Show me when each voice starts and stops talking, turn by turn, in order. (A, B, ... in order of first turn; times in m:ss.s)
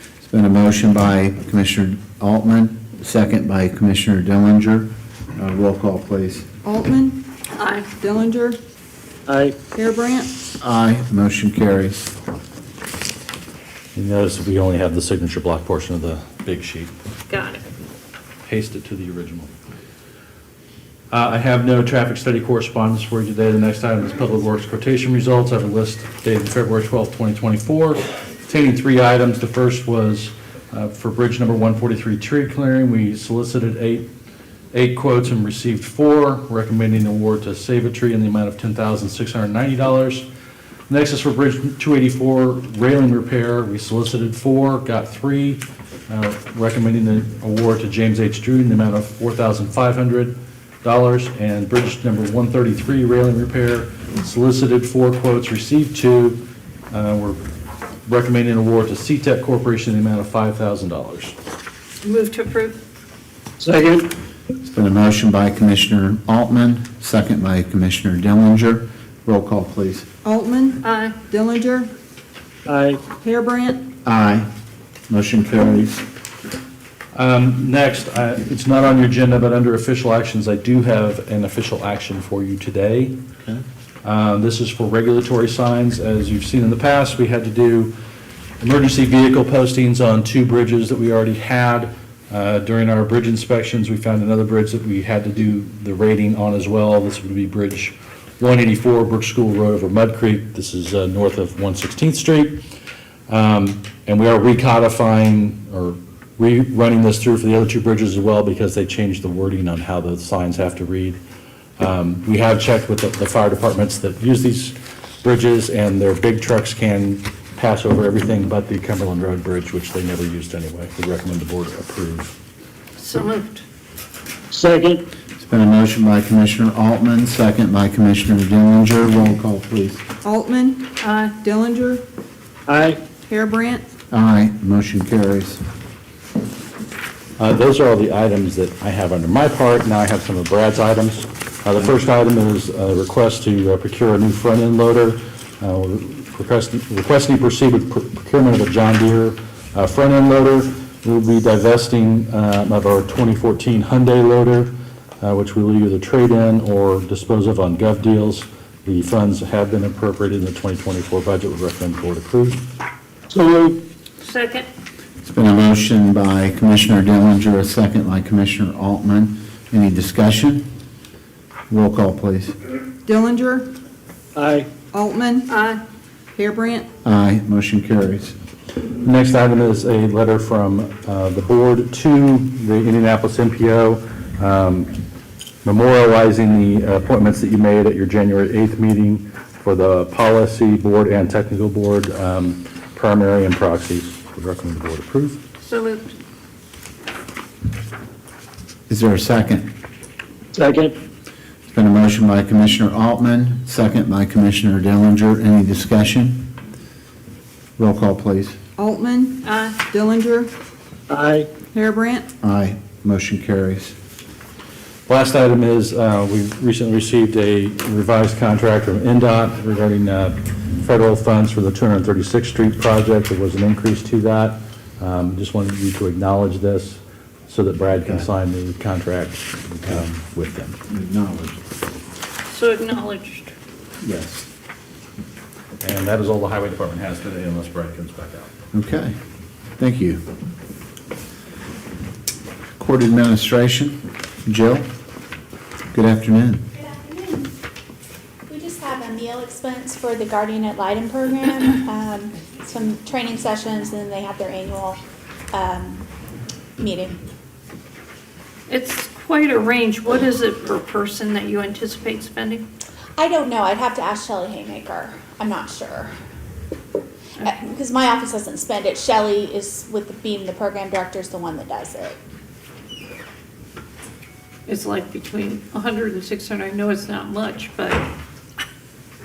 0:00.2-0:06.5 A
0:06.6-0:07.2 B
0:07.5-0:07.9 C
0:08.0-0:08.6 B
0:09.3-0:09.6 D
0:09.7-0:10.3 B
0:10.6-0:12.1 A
0:14.0-0:16.9 E
0:17.3-0:17.6 C
0:18.5-0:19.5 E
0:21.1-0:34.1 E
0:34.7-0:40.3 E
0:40.9-0:57.4 E
0:58.1-1:01.4 E
1:02.0-1:02.8 C
1:03.6-1:04.1 D
1:04.6-1:10.1 A
1:10.2-1:11.9 B
1:10.8-1:11.2 C
1:12.7-1:13.2 D
1:13.2-1:13.8 B
1:14.0-1:14.5 A
1:15.1-1:16.0 A
1:17.1-1:23.2 E
1:24.0-1:27.9 E
1:28.6-1:42.6 E
1:43.3-1:51.2 E
1:51.8-2:02.4 E
2:03.0-2:03.6 C
2:04.5-2:05.0 D
2:05.4-2:10.0 A
2:10.2-2:10.9 B
2:11.0-2:11.4 C
2:11.4-2:12.0 B
2:12.7-2:13.0 D
2:13.3-2:13.8 B
2:14.1-2:15.6 A
2:17.4-2:42.6 E
2:43.3-2:43.8 D
2:44.2-2:44.7 C
2:45.2-2:50.7 A
2:51.7-2:52.6 A
2:53.0-2:53.7 B
2:54.4-2:54.8 D
2:54.8-2:55.5 B
2:55.5-2:55.8 C
2:56.4-2:56.9 B
2:57.0-2:58.4 A
2:59.0-3:04.9 E
3:05.6-3:15.4 E
3:15.6-3:16.1 C
3:18.9-3:19.7 A
3:20.6-3:21.0 D
3:21.7-3:26.5 A
3:27.8-3:28.6 A
3:28.8-3:30.5 B
3:29.4-3:29.8 C
3:31.1-3:31.6 D
3:31.6-3:32.3 B
3:32.4-3:34.0 A
3:35.1-3:50.8 E
3:50.9-3:51.6 A
3:52.5-3:53.5 C
3:54.0-3:54.5 A
3:55.8-3:58.5 E
3:58.7-3:59.2 A
3:59.8-4:00.2 A
4:02.8-4:04.9 A
4:05.9-4:06.6 A
4:06.8-4:07.5 F
4:08.5-4:15.0 F
4:15.5-4:16.1 F
4:16.8-4:17.2 F
4:18.7-4:22.7 C
4:23.2-4:26.1 F
4:27.4-4:32.2 F
4:34.7-4:38.1 C